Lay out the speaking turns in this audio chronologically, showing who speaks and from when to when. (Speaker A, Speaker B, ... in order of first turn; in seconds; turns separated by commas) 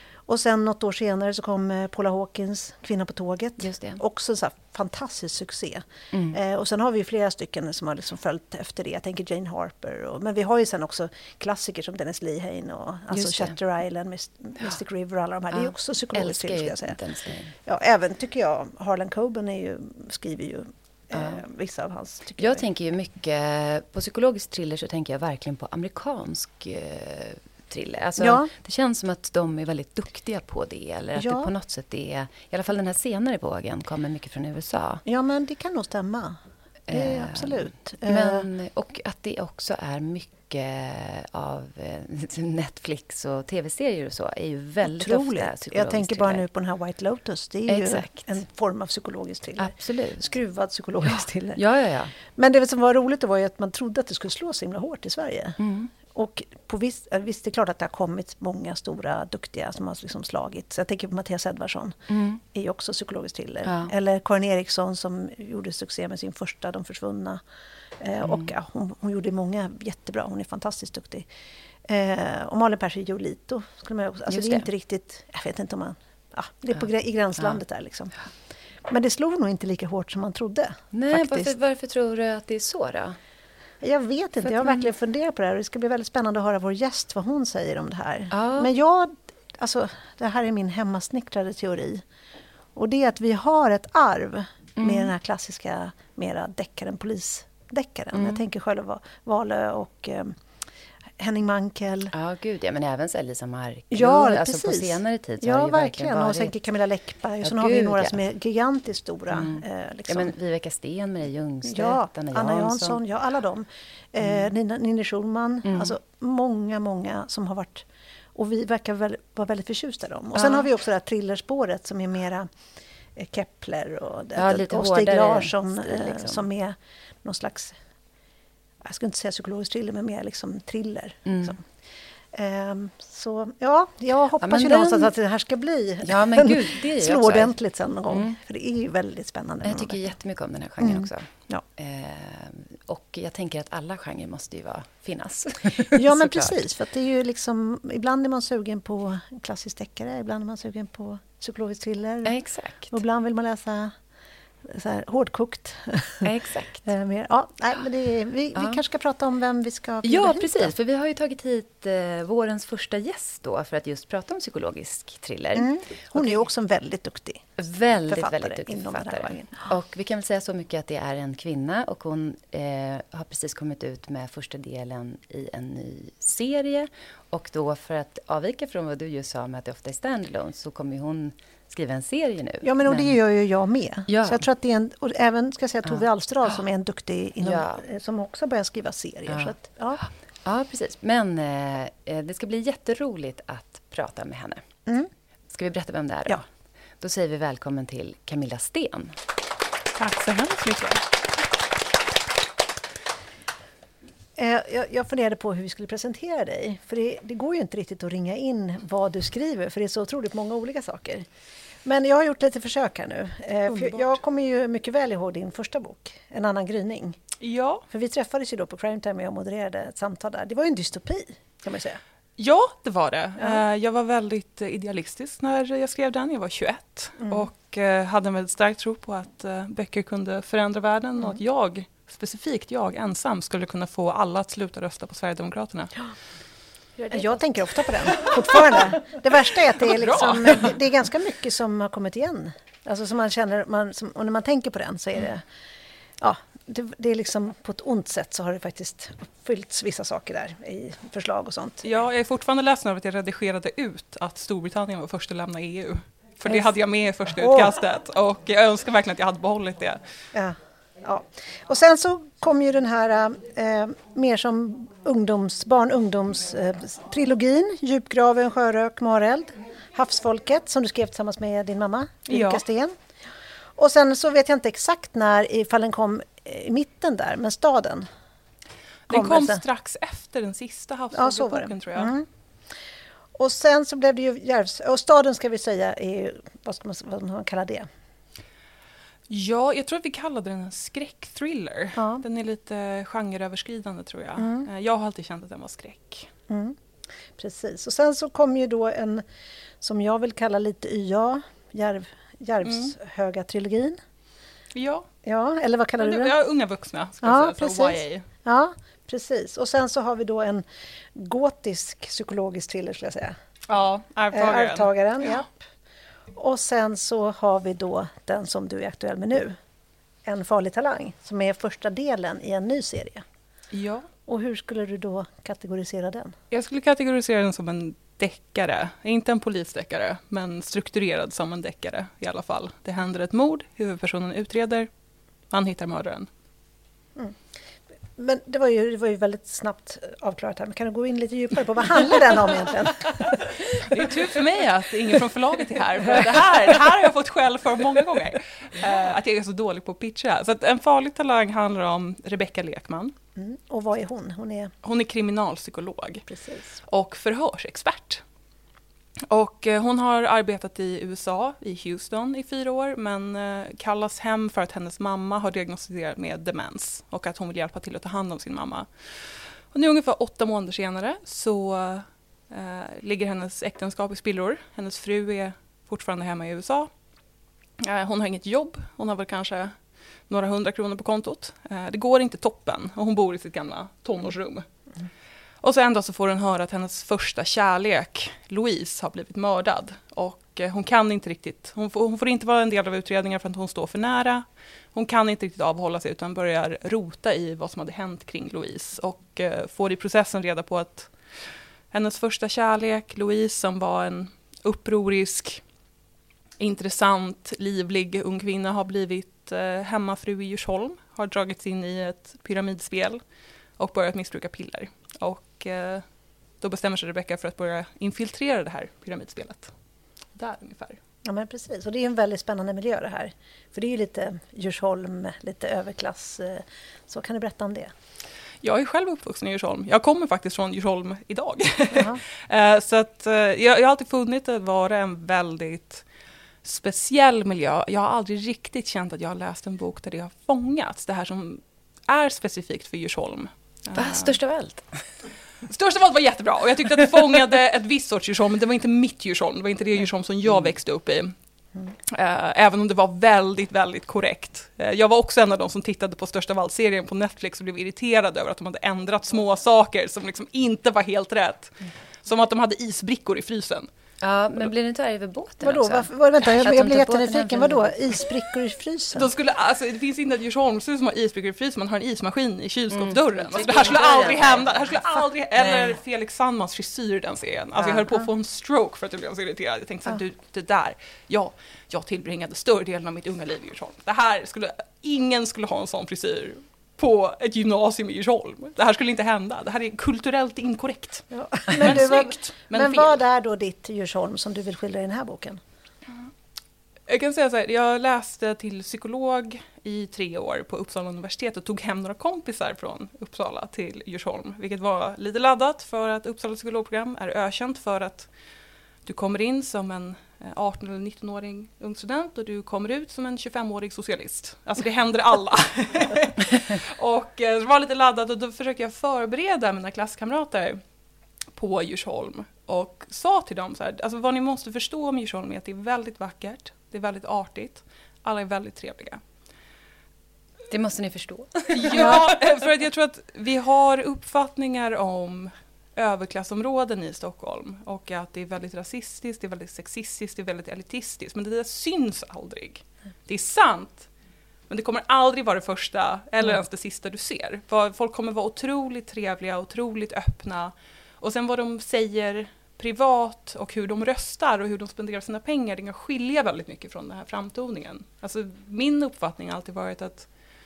Speaker A: 0.2-17.0, Speaker B: 3.6-4.0, Speaker B: 6.1-6.4, Speaker B: 13.1-13.5, Speaker B: 15.5-17.5, Speaker A: 17.6-22.6, Speaker B: 21.1-21.4, Speaker B: 22.4-35.0, Speaker A: 28.2-28.5, Speaker A: 31.1-31.5, Speaker A: 35.0-38.5, Speaker B: 36.9-46.4, Speaker A: 44.8-51.6, Speaker B: 47.7-48.3, Speaker B: 49.6-50.3, Speaker B: 51.5-52.1, Speaker A: 52.3-62.0, Speaker B: 55.6-55.9, Speaker B: 62.1-62.4, Speaker A: 62.5-67.4, Speaker B: 63.6-63.9, Speaker A: 68.0-71.3, Speaker B: 68.2-68.5, Speaker A: 71.8-78.1, Speaker B: 74.3-74.7, Speaker A: 78.9-81.5, Speaker B: 80.9-83.2, Speaker A: 83.8-92.0, Speaker B: 84.4-84.9, Speaker B: 88.3-88.7, Speaker A: 92.7-100.4, Speaker B: 94.8-95.1, Speaker B: 98.1-98.4, Speaker A: 101.2-102.1, Speaker B: 102.1-106.5, Speaker A: 103.9-110.3, Speaker B: 107.4-108.2, Speaker B: 109.3-113.0, Speaker A: 111.7-122.5, Speaker B: 114.2-114.5, Speaker B: 115.6-115.9, Speaker B: 120.4-120.6, Speaker A: 123.1-127.8, Speaker B: 124.3-126.4, Speaker A: 128.8-131.6, Speaker B: 131.2-131.6, Speaker A: 132.3-140.0, Speaker B: 134.4-135.1, Speaker B: 136.0-137.5, Speaker B: 138.1-138.4, Speaker B: 139.6-146.6, Speaker A: 140.8-141.6, Speaker A: 145.9-152.3, Speaker B: 152.2-152.9, Speaker A: 152.9-153.9, Speaker A: 154.6-156.3, Speaker B: 156.2-156.8, Speaker A: 156.8-160.7, Speaker B: 158.5-158.8, Speaker B: 160.0-166.4, Speaker A: 165.5-167.5, Speaker B: 167.6-183.1, Speaker A: 168.1-169.7, Speaker A: 182.6-190.0, Speaker B: 184.1-184.4, Speaker B: 187.4-187.8, Speaker B: 189.3-194.6, Speaker B: 195.5-196.4, Speaker B: 197.0-199.2, Speaker C: 200.0-201.0, Speaker A: 204.3-211.3, Speaker A: 211.8-217.2, Speaker C: 213.7-214.1, Speaker C: 217.4-217.8, Speaker A: 217.9-222.0, Speaker C: 222.4-235.9, Speaker A: 227.2-227.5, Speaker A: 237.0-245.4, Speaker C: 238.1-238.8, Speaker C: 239.8-240.7, Speaker A: 246.2-251.8, Speaker C: 251.8-260.0, Speaker A: 256.5-256.7, Speaker A: 257.4-257.7, Speaker A: 260.3-272.9, Speaker C: 272.3-272.6, Speaker A: 273.8-278.1, Speaker C: 279.1-282.1, Speaker A: 279.1-279.6, Speaker A: 281.1-282.3, Speaker A: 283.3-287.9, Speaker C: 289.3-296.3, Speaker A: 291.9-292.2, Speaker A: 294.4-294.7, Speaker A: 296.5-296.8, Speaker A: 297.3-299.2, Speaker A: 299.8-304.0, Speaker C: 302.6-302.9, Speaker C: 304.7-305.1, Speaker A: 305.2-306.3, Speaker C: 306.0-308.2, Speaker A: 307.2-313.4, Speaker C: 313.7-315.4, Speaker A: 314.3-315.5, Speaker A: 316.3-319.6, Speaker A: 320.2-323.2, Speaker C: 323.7-324.1, Speaker A: 324.3-326.4, Speaker C: 326.5-334.9, Speaker C: 335.5-336.3, Speaker A: 338.1-344.1, Speaker C: 343.7-353.1, Speaker A: 353.4-354.7, Speaker C: 354.8-356.2, Speaker A: 356.3-356.8, Speaker C: 356.9-358.2, Speaker C: 359.3-376.9, Speaker C: 377.8-379.7, Speaker C: 380.3-384.6, Speaker C: 385.6-401.1, Speaker C: 401.9-405.6, Speaker C: 406.6-413.2, Speaker C: 413.8-416.0, Speaker C: 416.6-419.7, Speaker C: 420.3-421.0, Speaker A: 421.2-427.9, Speaker C: 428.6-436.0, Speaker A: 431.9-432.2, Speaker C: 436.6-444.3, Speaker B: 443.9-445.1, Speaker C: 445.7-451.3, Speaker C: 452.1-463.9, Speaker B: 464.2-467.9, Speaker A: 465.6-469.3, Speaker C: 469.1-493.2, Speaker B: 472.9-474.7, Speaker B: 477.8-478.0, Speaker A: 491.3-495.6, Speaker C: 497.1-508.3, Speaker C: 509.0-520.8, Speaker C: 521.5-529.2, Speaker B: 530.7-532.4, Speaker C: 531.7-544.1, Speaker C: 544.7-560.3